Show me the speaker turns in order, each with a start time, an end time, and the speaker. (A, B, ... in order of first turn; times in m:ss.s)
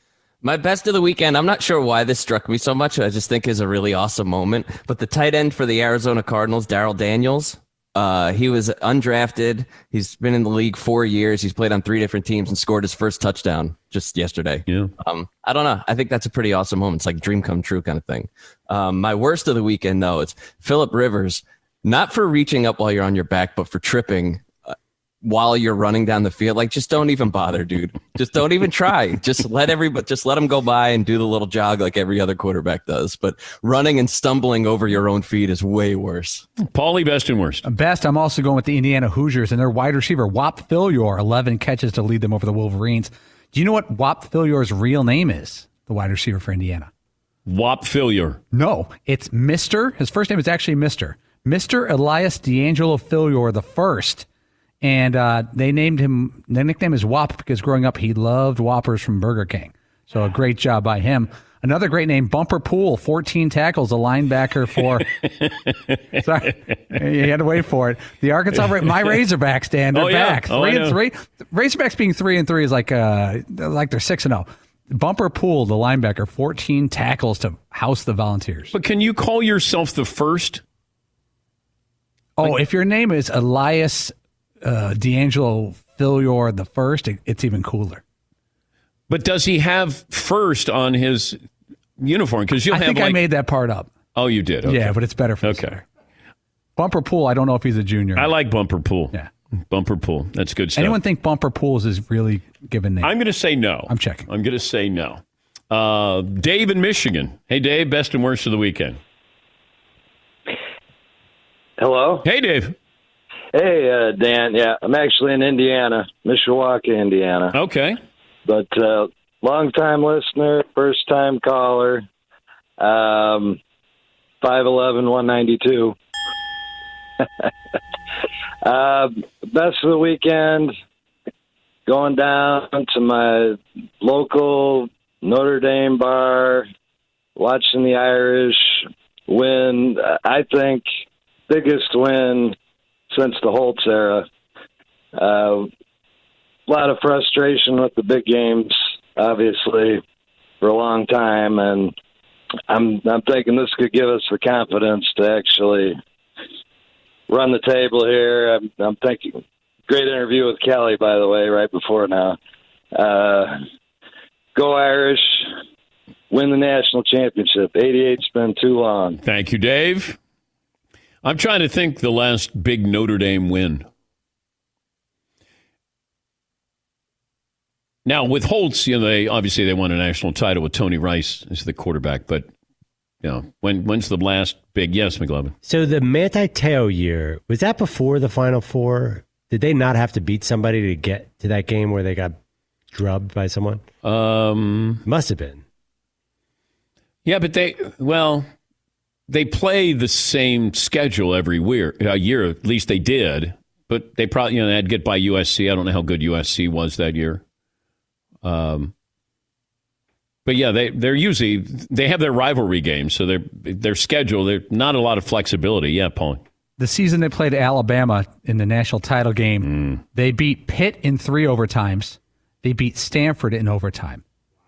0:00.4-0:36.5 A
0:36.6-0:37.6 B
0:37.6-0:46.9 C
0:47.4-0:48.4 B
0:48.5-0:54.2 C
0:54.8-1:05.1 C
1:05.2-1:06.2 B
1:06.2-1:18.7 C
1:09.9-1:11.0 B
1:18.7-1:20.6 B
1:22.4-1:28.0 C
1:29.1-1:31.4 B
1:32.0-1:33.2 B
1:32.7-1:33.9 C
1:34.1-1:35.8 B
1:34.6-1:35.8 C
1:36.8-1:38.3 C
1:38.2-1:39.1 B
1:39.7-1:41.0 B
1:40.8-1:43.1 C
1:43.0-1:49.0 B
1:43.9-1:44.3 C
1:51.8-1:52.2 D
1:52.2-1:52.7 B
1:53.5-1:57.5 D
1:57.5-1:58.0 B
1:58.4-2:02.0 D
2:02.8-2:03.6 D
2:04.4-2:05.9 D
2:08.6-2:10.7 D
2:11.9-2:16.7 D
2:17.4-2:20.8 D
2:21.5-2:22.6 D
2:23.1-2:24.2 D
2:25.2-2:25.7 D
2:26.7-2:30.0 D
2:30.6-2:31.9 D
2:32.7-2:36.0 D
2:37.3-2:42.4 D
2:42.9-2:43.6 D
2:44.5-2:45.5 D
2:46.3-2:49.2 D
2:49.2-2:50.2 B
2:51.2-2:53.8 B
2:58.0-3:02.5 B
3:03.2-3:05.5 B
3:05.6-3:12.4 E
3:12.9-3:13.8 E
3:14.0-3:15.0 B
3:15.0-3:15.6 E
3:17.2-3:18.4 B
3:19.3-3:27.4 B
3:28.4-3:28.9 B
3:30.4-3:36.4 B
3:36.8-3:44.2 C
3:39.6-3:40.0 B